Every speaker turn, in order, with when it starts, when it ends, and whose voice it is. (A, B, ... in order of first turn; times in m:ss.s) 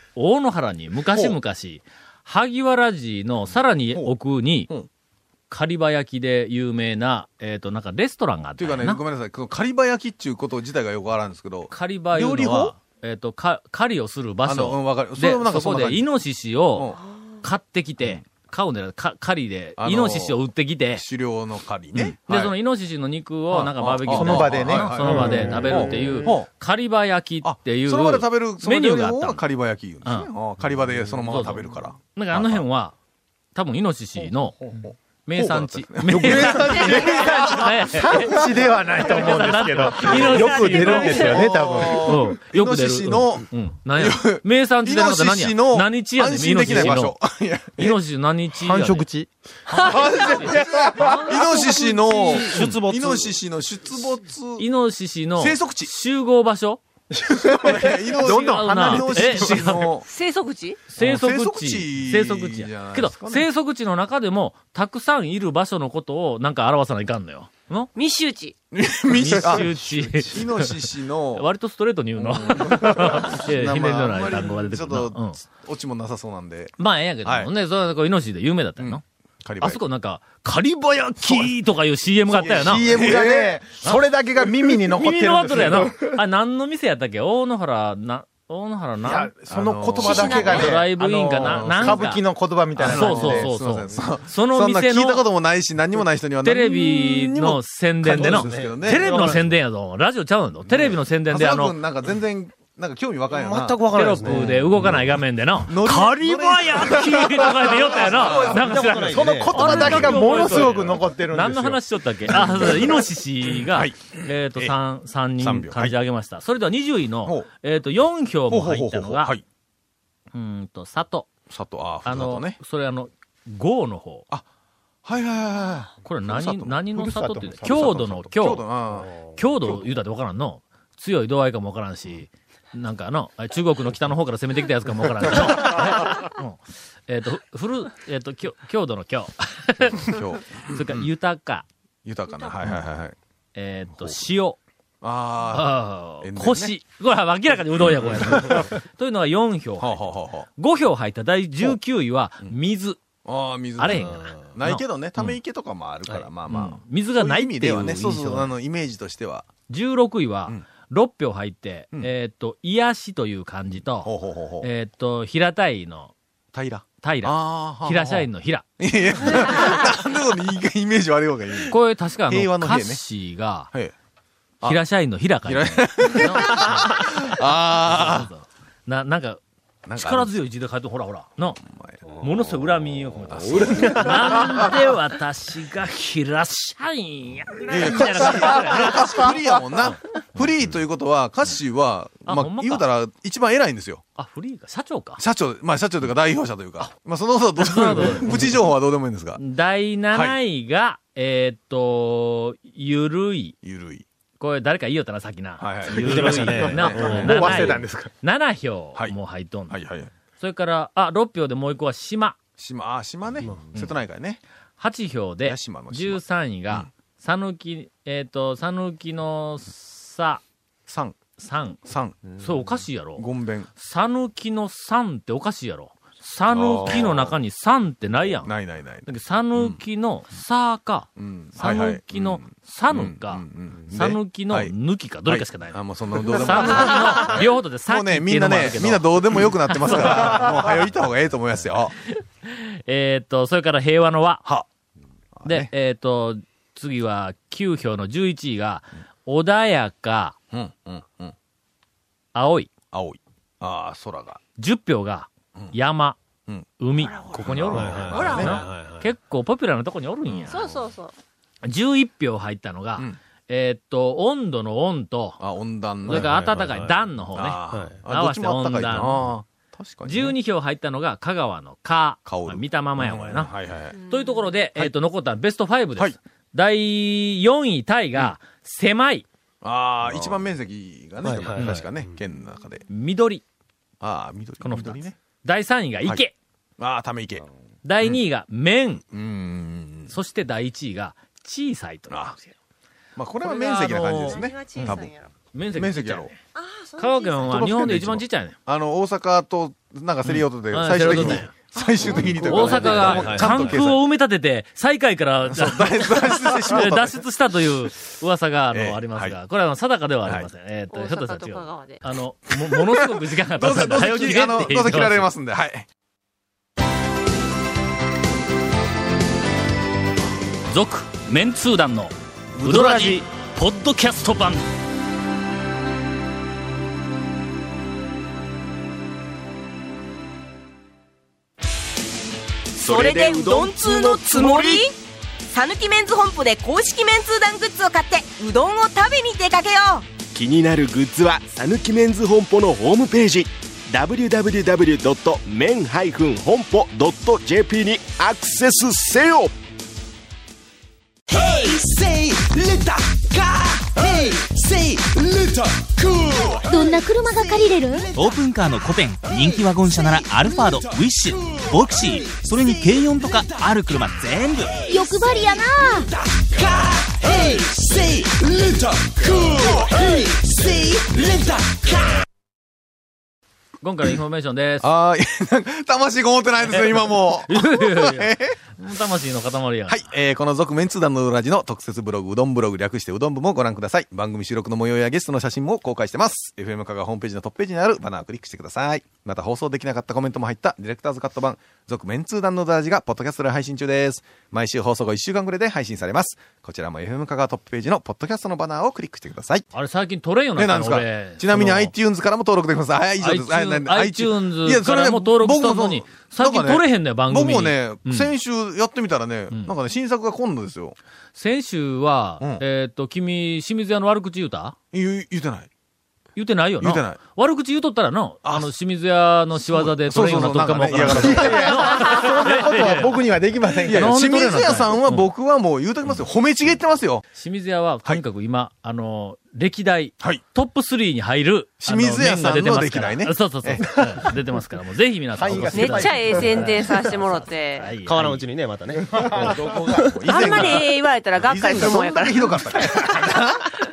0:00.2-0:04.7 A
0:05.5-0:09.0 A
0:08.6-0:12.7 B
0:11.7-0:16.9 A
0:14.4-0:16.1 B
0:17.4-0:21.0 A
0:19.8-0:20.4 B
0:20.9-0:22.5 B
0:22.0-0:29.4 A
0:23.5-0:26.5 B
0:24.1-0:26.3 C
0:27.4-0:32.6 B
0:31.2-0:33.0 A
0:33.6-0:34.6 A
0:34.6-0:38.5 B
0:35.3-0:38.4 A
0:36.1-0:42.2 C
0:39.0-0:47.2 A
0:40.0-0:48.0 B
0:47.8-0:49.1 A
0:48.6-0:51.7 C
0:49.7-0:51.6 A
0:50.0-0:50.3 B
0:51.3-0:54.7 B
0:52.1-0:53.3 D
0:54.6-0:56.8 A
0:55.4-0:55.9 B
0:57.2-0:59.3 C
0:57.5-1:00.0 B
0:58.2-1:00.0 A
1:00.0-1:00.8 E
1:00.9-1:07.9 A
1:01.0-1:03.5 B
1:08.0-1:08.6 E
1:08.7-1:11.5 B
1:09.1-1:15.4 A
1:12.2-1:16.7 B
1:16.8-1:19.0 A
1:17.2-1:17.5 B
1:18.8-1:19.8 B
1:19.6-1:23.0 A
1:21.2-1:21.5 B
1:22.3-1:23.7 B
1:22.6-1:26.2 C
1:24.9-1:29.3 A
1:29.0-1:33.5 C
1:29.1-1:30.8 B
1:30.0-1:30.6 E
1:30.3-1:32.2 A
1:31.4-1:32.2 B
1:32.8-1:39.4 B
1:32.8-1:35.2 A
1:36.4-1:41.8 A
1:38.1-1:39.5 D
1:40.7-1:45.0 B
1:43.3-1:44.5 D
1:44.0-1:59.3 A
1:45.7-1:48.7 B
1:48.5-1:50.0 D
1:48.6-1:51.8 C
1:49.7-1:50.6 B
1:52.3-1:52.9 B
1:53.5-1:54.7 B
1:55.4-1:55.9 B
1:58.5-1:59.4 B
2:00.3-2:01.3 A
2:01.5-2:02.6 B
2:02.0-2:04.2 A
2:05.0-2:07.0 B
2:06.0-2:08.6 A
2:07.0-2:08.0 C
2:07.6-2:09.1 B
2:09.4-2:21.7 A
2:20.0-2:21.0 B
2:22.0-2:23.2 B
2:23.6-2:24.6 A
2:25.0-2:26.8 B
2:25.5-2:30.0 A
2:27.8-2:28.7 B
2:29.8-2:30.5 B
2:30.6-2:33.0 A
2:33.2-2:39.5 B
2:33.8-2:35.4 A
2:36.5-2:38.5 A
2:39.7-2:44.1 A
2:44.0-2:44.7 B
2:44.6-2:46.1 A
2:46.5-2:48.3 B
2:47.0-2:48.7 A
2:48.8-2:51.8 B
2:51.7-2:53.7 A
2:52.3-2:53.0 B
2:54.6-2:59.4 A
2:55.4-2:58.3 B
2:59.9-3:00.3 B
3:00.0-3:01.6 A
3:01.7-3:02.2 B
3:02.2-3:10.0 A
3:03.3-3:04.5 B
3:07.7-3:14.0 B
3:12.3-3:12.8 A
3:14.2-3:15.2 A
3:15.2-3:19.4 B
3:17.6-3:18.5 A
3:19.4-3:23.6 A
3:23.6-3:24.0 B
3:24.4-3:29.8 A
3:25.6-3:27.8 B
3:26.0-3:27.6 D
3:26.2-3:28.1 C
3:29.7-3:30.1 B
3:30.4-3:32.4 A
3:32.6-3:34.4 B
3:34.8-3:40.4 A
3:35.4-3:36.9 B
3:40.9-3:41.2 B
3:41.4-3:41.8 A
3:41.8-3:42.4 B
3:42.4-3:48.5 A
3:43.2-3:43.7 B
3:46.5-3:47.4 B
3:48.4-3:49.8 B
3:49.0-4:00.8 A
3:51.2-3:54.7 B
3:55.3-4:01.9 B
4:02.5-4:04.4 A
4:05.4-4:05.7 B
4:05.5-4:10.4 A
4:10.5-4:11.4 B
4:12.4-4:12.7 A
4:12.9-4:14.4 B
4:14.6-4:16.2 A
4:16.8-4:20.6 A
4:17.0-4:17.5 E
4:17.4-4:18.6 B
4:17.6-4:19.1 D
4:18.1-4:18.5 E
4:20.3-4:20.8 B
4:20.5-4:21.1 E
4:21.6-4:25.4 A
4:25.4-4:26.4 B
4:26.1-4:26.9 D
4:26.1-4:29.3 A
4:27.4-4:30.4 B
4:30.1-4:33.5 A
4:32.3-4:34.0 B
4:34.0-4:34.4 E
4:34.1-4:39.3 A
4:39.6-4:42.8 B
4:41.2-4:42.1 D
4:41.6-4:41.8 A
4:42.9-4:43.4 A
4:44.0-4:45.2 B
4:44.6-4:46.3 A
4:46.8-4:47.4 B
4:47.8-4:49.0 A
4:49.1-4:50.1 B
4:50.1-4:52.4 A
4:52.1-4:52.4 B
4:53.2-4:55.1 B
4:53.4-4:56.4 A
4:53.9-4:55.3 E
4:55.8-4:56.3 B
4:56.5-4:57.7 E
4:57.0-4:58.6 A
4:57.4-5:04.0 B
5:00.2-5:01.5 A
5:01.8-5:02.5 E
5:02.4-5:03.8 D
5:02.4-5:15.3 A
5:05.5-5:07.2 B
5:08.7-5:09.4 B
5:10.9-5:12.0 E
5:12.9-5:15.9 B
5:20.7-5:24.6 A
5:22.6-5:23.2 D
5:32.8-5:34.8 F
5:32.8-5:35.0 G
5:35.5-5:40.1 G
5:40.3-5:49.5 F
5:51.5-5:56.8 F
5:56.7-5:58.1 H
5:58.2-6:04.8 I
6:04.9-6:06.1 H
6:06.6-6:11.5 F
6:13.8-6:14.9 A
6:14.8-6:18.6 B
6:16.7-6:20.0 A
6:19.9-6:39.7 B
6:39.7-6:41.9 A
6:40.6-6:51.0 B
6:43.2-6:48.3 A
6:51.4-6:54.8 A
6:54.9-6:55.7 B
6:56.4-7:05.3 A
6:56.8-6:57.2 B
6:59.6-7:02.1 B
7:01.1-7:04.2 C
7:03.9-7:07.3 B
7:07.4-7:18.5 A
7:11.8-7:14.0 B
7:15.4-7:16.7 C
7:15.7-7:17.9 E
7:18.0-7:20.1 D
7:19.2-7:23.7 B
7:20.3-7:22.8 E